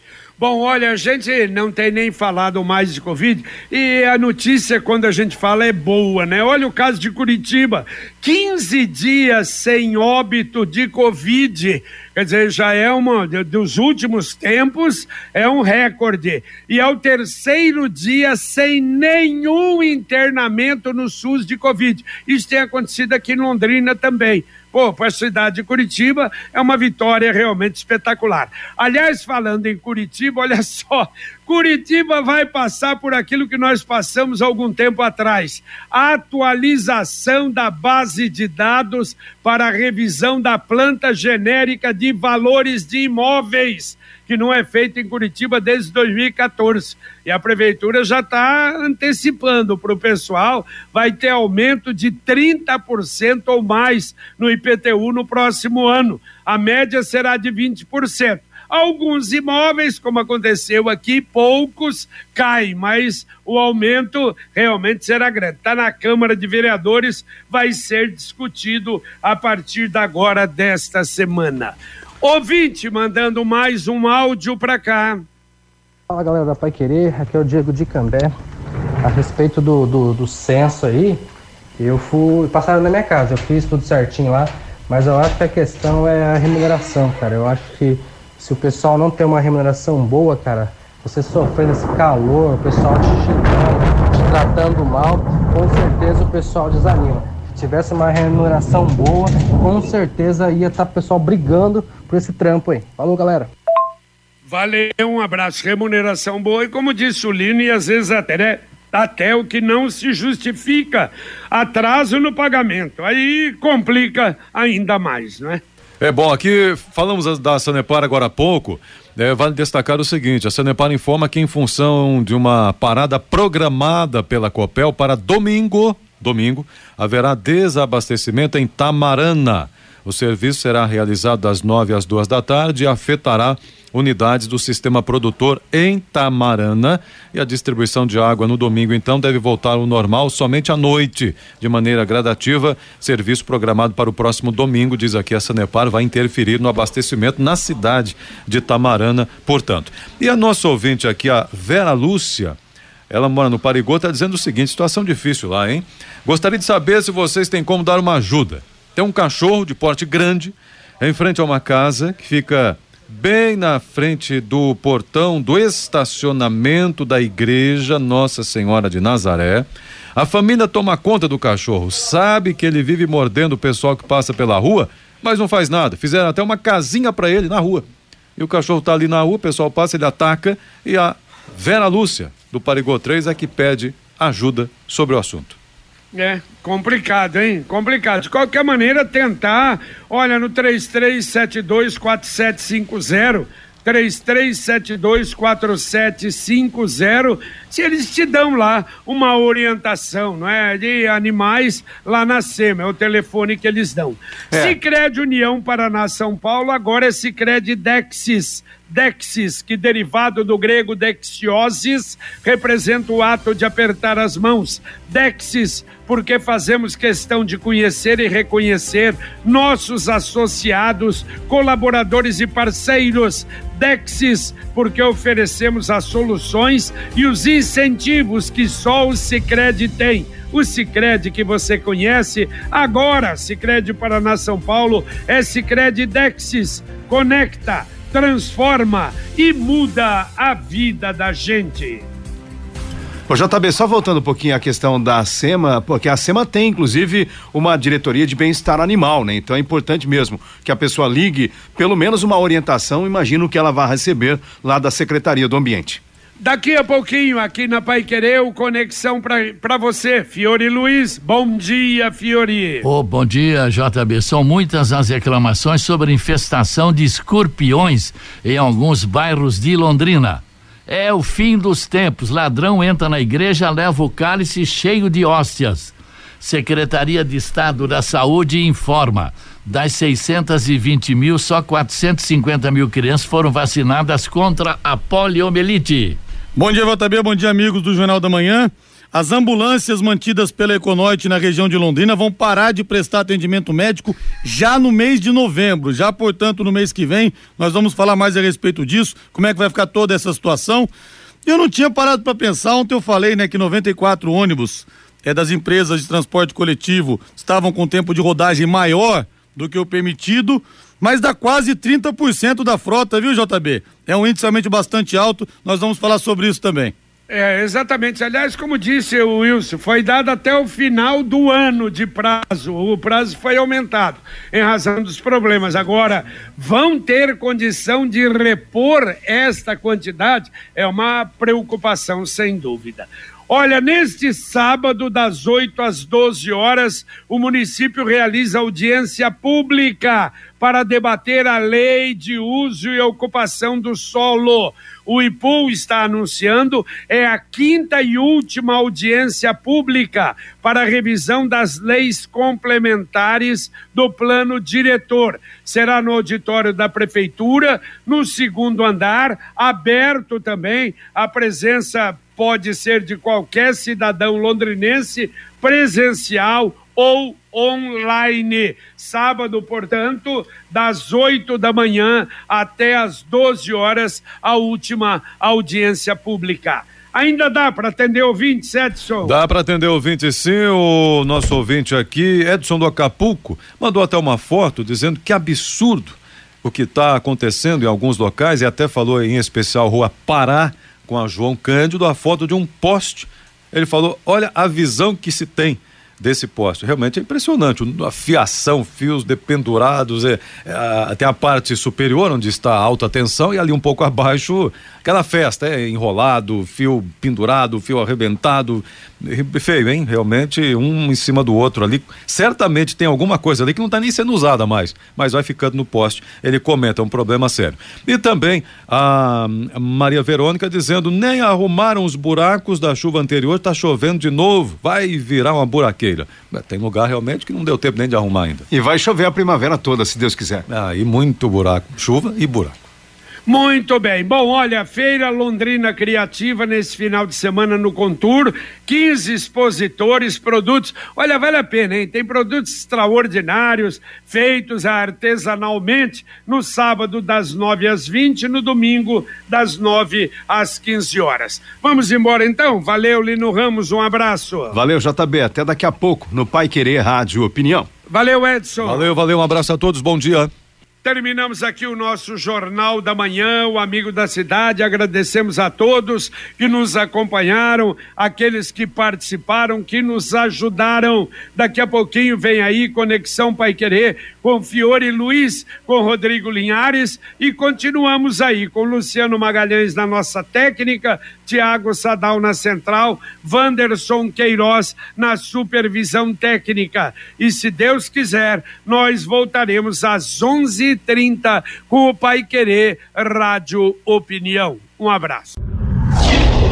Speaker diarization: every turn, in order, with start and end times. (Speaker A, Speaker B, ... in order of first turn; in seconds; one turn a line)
Speaker A: 0.4-75.2
Speaker B: 76.1-78.3
Speaker B: 79.0-81.2
Speaker B: 81.8-103.5
Speaker A: 104.5-115.6
Speaker C: 116.0-152.6
Speaker C: 153.1-177.8
Speaker C: 178.4-185.6
Speaker A: 186.1-242.1
Speaker D: 243.3-256.0
Speaker A: 256.4-262.9
Speaker E: 262.8-286.2
Speaker F: 286.6-300.9
Speaker F: 301.4-316.9
Speaker A: 317.3-379.4
Speaker C: 379.2-428.7
Speaker D: 428.7-430.7
Speaker C: 430.7-432.8
Speaker A: 433.5-454.8
Speaker D: 454.7-457.9
Speaker A: 458.1-459.1
Speaker C: 458.8-460.5
Speaker A: 461.0-495.6